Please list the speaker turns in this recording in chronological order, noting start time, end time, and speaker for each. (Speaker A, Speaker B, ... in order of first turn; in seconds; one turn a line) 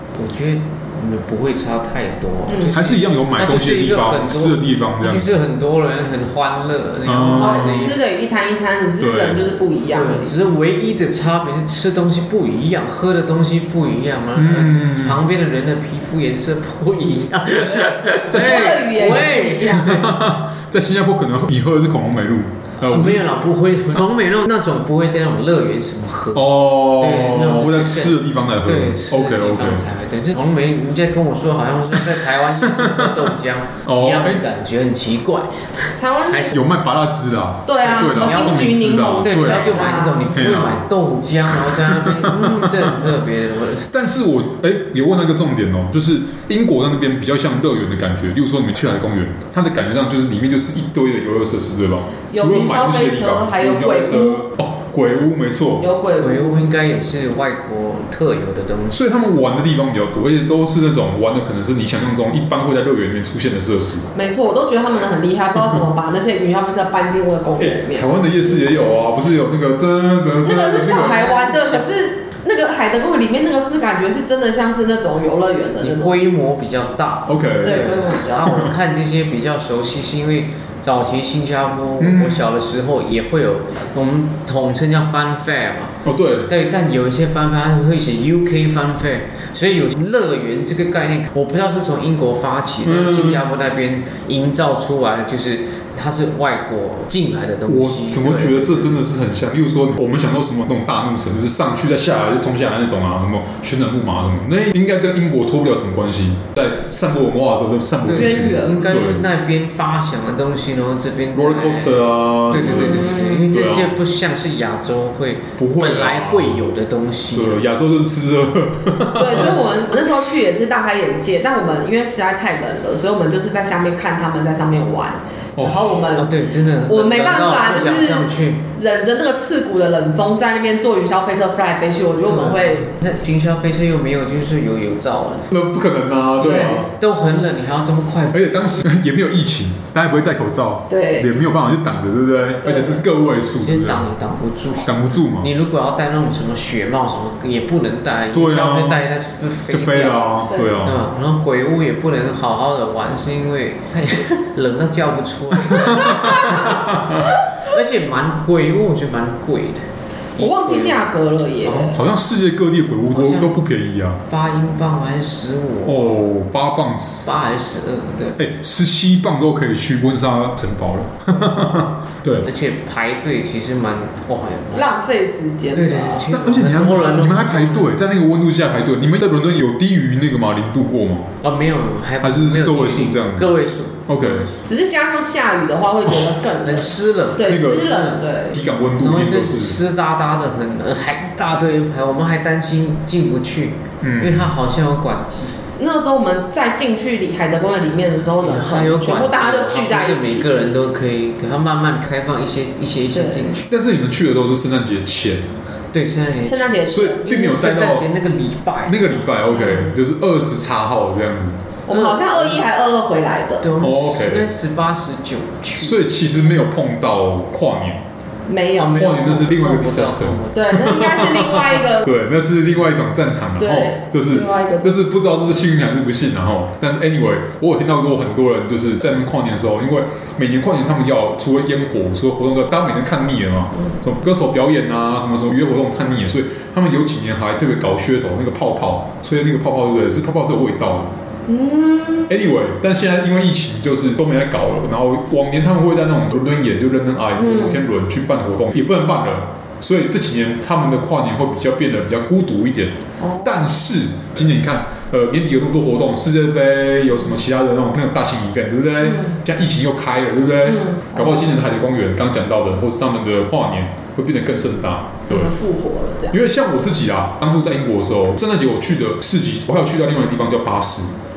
Speaker A: 0.1-8.0
Speaker B: 2.5-2.8
Speaker C: 2.7-5.4
Speaker C: 7.0-7.9
Speaker B: 7.3-10.3
Speaker C: 9.0-9.4
Speaker A: 9.9-20.0
Speaker C: 14.3-15.2
Speaker C: 18.3-19.1
Speaker B: 18.3-20.0
Speaker C: 19.7-23.2
Speaker A: 22.8-36.6
Speaker C: 26.3-29.8
Speaker C: 32.7-33.1
Speaker C: 33.8-34.4
Speaker B: 36.0-36.7
Speaker C: 36.5-40.8
Speaker B: 37.6-40.4
Speaker A: 37.8-43.9
Speaker C: 41.9-43.1
Speaker C: 43.9-55.9
Speaker B: 52.3-54.4
Speaker B: 55.8-56.6
Speaker A: 56.2-59.1
Speaker C: 58.9-64.1
Speaker B: 64.1-68.1
Speaker C: 67.6-71.8
Speaker B: 70.4-76.2
Speaker A: 75.8-99.0
Speaker C: 77.2-78.7
Speaker B: 77.6-78.6
Speaker C: 82.0-82.5
Speaker C: 86.0-86.5
Speaker C: 92.8-93.4
Speaker C: 97.7-109.2
Speaker A: 108.0-117.6
Speaker B: 108.1-109.0
Speaker C: 111.3-113.9
Speaker B: 112.7-113.5
Speaker C: 115.6-116.7
Speaker C: 117.3-119.6
Speaker B: 119.2-126.3
Speaker C: 125.5-126.0
Speaker A: 126.1-128.6
Speaker B: 126.9-132.9
Speaker A: 132.2-135.5
Speaker C: 135.5-136.9
Speaker A: 136.4-138.8
Speaker B: 136.4-136.8
Speaker C: 138.3-144.1
Speaker B: 140.9-141.3
Speaker B: 142.6-143.0
Speaker A: 143.6-156.9
Speaker C: 144.8-145.5
Speaker C: 148.3-149.0
Speaker C: 149.7-151.0
Speaker C: 155.7-156.9
Speaker A: 157.6-161.1
Speaker B: 160.4-162.0
Speaker A: 161.6-162.0
Speaker C: 161.9-164.2
Speaker A: 163.1-163.6
Speaker A: 164.2-166.3
Speaker C: 165.8-167.3
Speaker A: 167.2-168.4
Speaker C: 168.4-172.5
Speaker A: 172.4-174.9
Speaker B: 174.7-176.3
Speaker A: 175.7-177.9
Speaker C: 176.3-181.3
Speaker A: 181.4-184.6
Speaker C: 182.2-183.5
Speaker C: 184.1-184.5
Speaker B: 184.6-188.6
Speaker A: 186.6-188.2
Speaker C: 187.5-189.8
Speaker A: 189.0-195.6
Speaker C: 194.0-194.5
Speaker B: 195.8-200.5
Speaker A: 198.4-203.7
Speaker B: 203.1-203.5
Speaker C: 203.7-205.5
Speaker A: 205.9-209.7
Speaker B: 206.4-207.3
Speaker C: 206.8-208.1
Speaker C: 208.8-211.6
Speaker B: 211.8-213.7
Speaker A: 211.9-212.6
Speaker A: 213.6-216.0
Speaker C: 213.8-214.5
Speaker C: 215.8-218.0
Speaker B: 218.5-219.0
Speaker A: 218.8-220.8
Speaker C: 218.8-241.1
Speaker B: 220.5-222.1
Speaker B: 223.6-225.0
Speaker B: 241.5-242.3
Speaker C: 242.3-265.5
Speaker B: 247.4-247.8
Speaker B: 253.2-253.5
Speaker B: 260.7-261.2
Speaker B: 265.3-266.4
Speaker C: 266.3-271.1